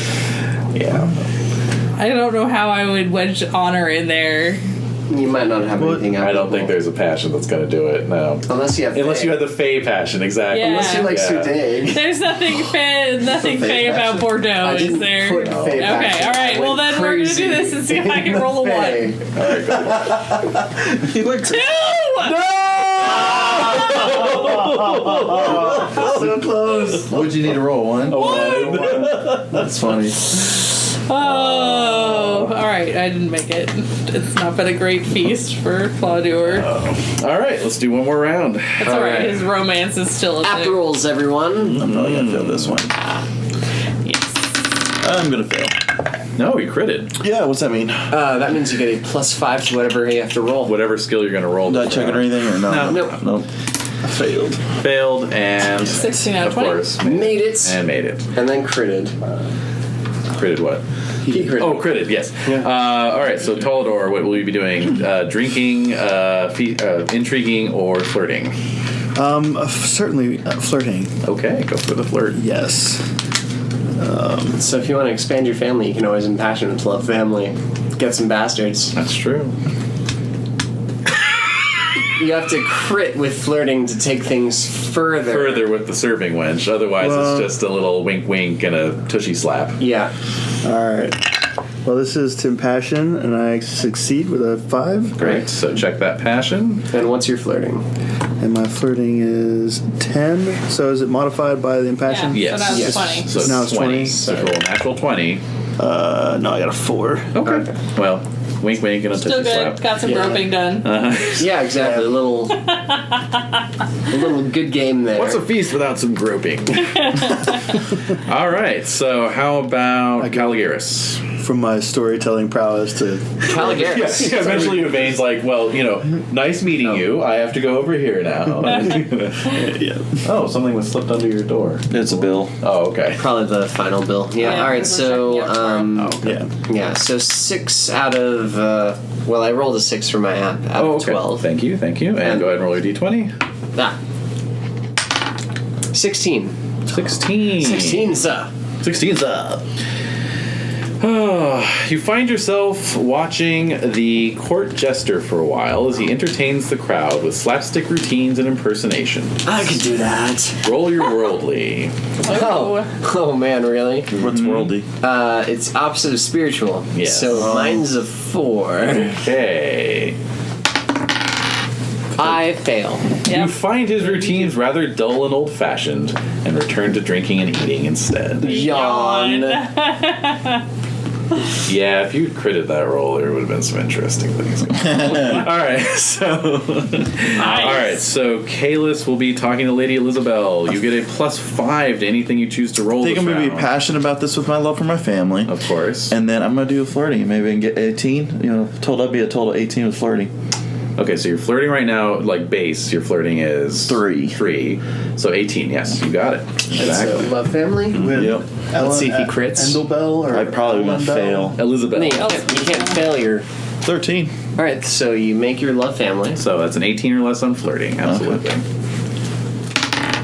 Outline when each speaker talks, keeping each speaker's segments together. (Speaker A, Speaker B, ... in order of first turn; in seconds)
Speaker A: 0.7-1.2, 6.2-11.5, 15.4-15.9, 19.3-20.4, 22.2-27.0, 28.1-30.1, 31.2-32.4, 36.5-39.2, 41.8-42.8, 46.4-47.2, 50.6-53.2, 54.8-58.2, 60.3-60.8, 61.5-68.5, 71.2-72.4, 78.9-79.5, 85.3-89.8, 95.2-96.8, 102.3-105.4, 107.3-109.8, 110.8-111.6, 115.2-121.2, 123.5-129.4, 130.2-132.0, 132.5-133.2, 135.9-136.4, 140.8-143.3, 146.9-148.1, 148.8-149.6, 151.0-159.6, 160.6-161.9, 164.3-164.6, 166.9-167.4, 169.2-170.2, 173.2-178.6, 181.7-193.7, 195.4-196.2, 201.0-207.3, 211.6-212.4, 216.4-218.6
Speaker B: 2.0-4.6, 10.5-11.2, 11.9-19.2, 21.4-22.5, 28.1-28.8, 30.2-36.7, 38.8-40.8, 44.0-44.4, 55.8-56.9, 102.1-103.4, 109.1-110.9, 117.1-117.4, 134.4-136.0, 162.2-162.9, 173.3-173.6, 178.4-180.6, 187.3-188.0, 212.1-213.0
Speaker C: 5.1-6.7, 8.5-9.5, 10.5-12.0, 13.3-19.2, 38.8-39.3, 40.4-41.9, 48.1-50.8, 52.8-53.1, 57.0-57.8, 58.3-59.1, 61.2-62.7, 74.5-78.9, 82.1-85.7, 89.8-90.1, 96.9-97.8, 102.7-103.5, 104.1-104.5, 107.4-107.7, 110.0-110.4, 111.4-112.6, 114.1-115.4, 123.4-124.9, 133.2-141.4, 142.2-142.5, 145.9-146.6, 147.5-148.5, 159.4-160.6, 162.2-164.1, 165.0-169.2, 172.2-173.1, 178.4-179.7, 206.8-208.1, 208.8-209.8, 211.3-213.4, 214.6-216.4
Speaker D: 5.8-6.1, 23.8-27.0, 28.2-30.0, 54.0-54.6, 69.2-71.1, 72.3-73.0, 74.0-74.6, 87.0-87.5, 90.6-91.2, 91.8-95.3, 98.4-104.5, 105.8-107.3, 111.7-112.1, 120.2-120.7, 121.4-124.1, 128.6-130.2, 136.2-136.5, 207.9-211.6
Speaker E: 25.9-26.3, 26.9-28.4, 29.2-30.1, 41.6-42.9, 45.0-45.8, 47.2-48.1, 51.7-53.5, 54.1-54.4, 131.9-132.5, 164.1-164.9, 167.4-167.8, 184.9-185.4, 193.0-195.5, 196.1-200.3, 203.8-204.4, 208.0-208.5, 210.3-211.6, 213.8-214.3, 218.0-218.4